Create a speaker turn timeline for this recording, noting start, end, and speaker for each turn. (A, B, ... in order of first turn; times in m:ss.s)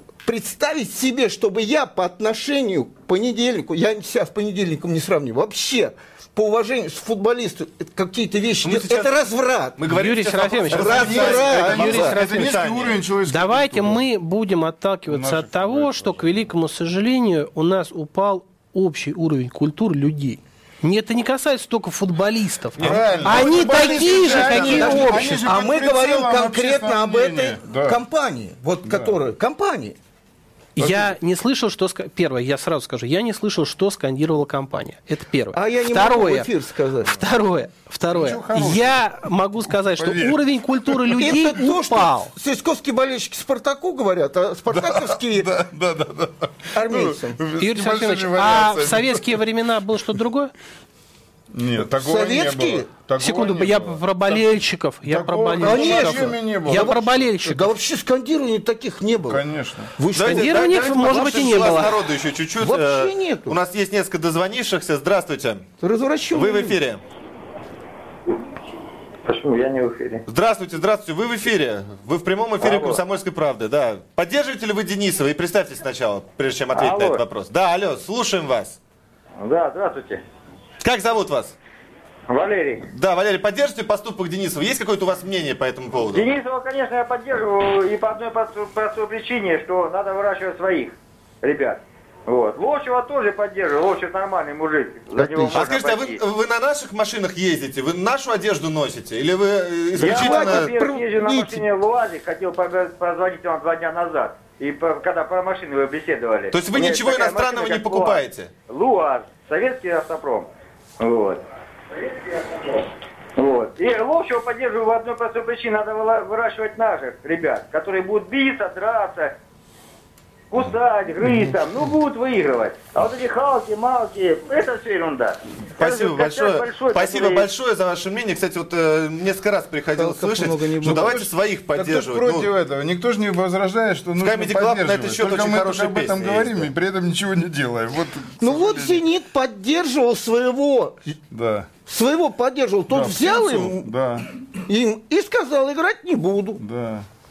0:00.2-0:09.8 A
0:08.6-0:09.1 B
0:09.8-0:13.0 B
0:09.9-0:12.6 C
0:10.7-0:12.2 A
0:10.7-0:14.0 D
0:13.3-0:25.4 C
0:15.1-0:16.4 D
0:22.8-0:28.0 D
0:23.2-0:30.0 A
0:28.8-0:29.2 D
0:30.8-0:36.5 C
0:30.8-0:31.1 D
0:35.5-0:37.2 A
0:37.1-0:42.3 C
0:38.1-0:41.2 D
0:41.2-0:45.5 A
0:44.7-0:49.4 D
0:46.7-0:47.4 A
0:47.6-0:50.5 C
0:51.5-0:57.3 D
0:52.0-0:52.9 A
0:53.2-0:57.7 C
0:55.6-0:59.4 A
0:59.2-0:59.9 D
1:00.0-1:01.9 A
1:00.1-1:05.6 B
1:00.3-1:02.0 C
1:02.6-1:03.6 A
1:05.8-1:06.8 A
1:06.3-1:07.0 B
1:09.2-1:10.2 E
1:10.3-1:18.8 B
1:12.6-1:13.0 E
1:16.7-1:17.2 E
1:19.4-1:20.2 E
1:20.8-1:21.6 B
1:22.3-1:22.8 E
1:22.9-1:26.3 B
1:26.1-1:36.2 E
1:35.1-1:35.6 A
1:35.5-1:40.7 B
1:40.0-1:41.6 A
1:40.0-1:50.5 E
1:46.5-1:48.5 B
1:51.0-1:51.4 E
1:52.0-1:59.3 E
2:00.5-2:07.5 E
2:05.8-2:12.5 B
2:10.0-2:11.2 A
2:10.8-2:19.0 D
2:14.2-2:16.7 B
2:18.4-2:21.2 A
2:21.3-2:21.7 D
2:21.8-2:23.9 A
2:22.9-2:24.3 D
2:24.7-2:26.6 A
2:26.6-2:27.0 D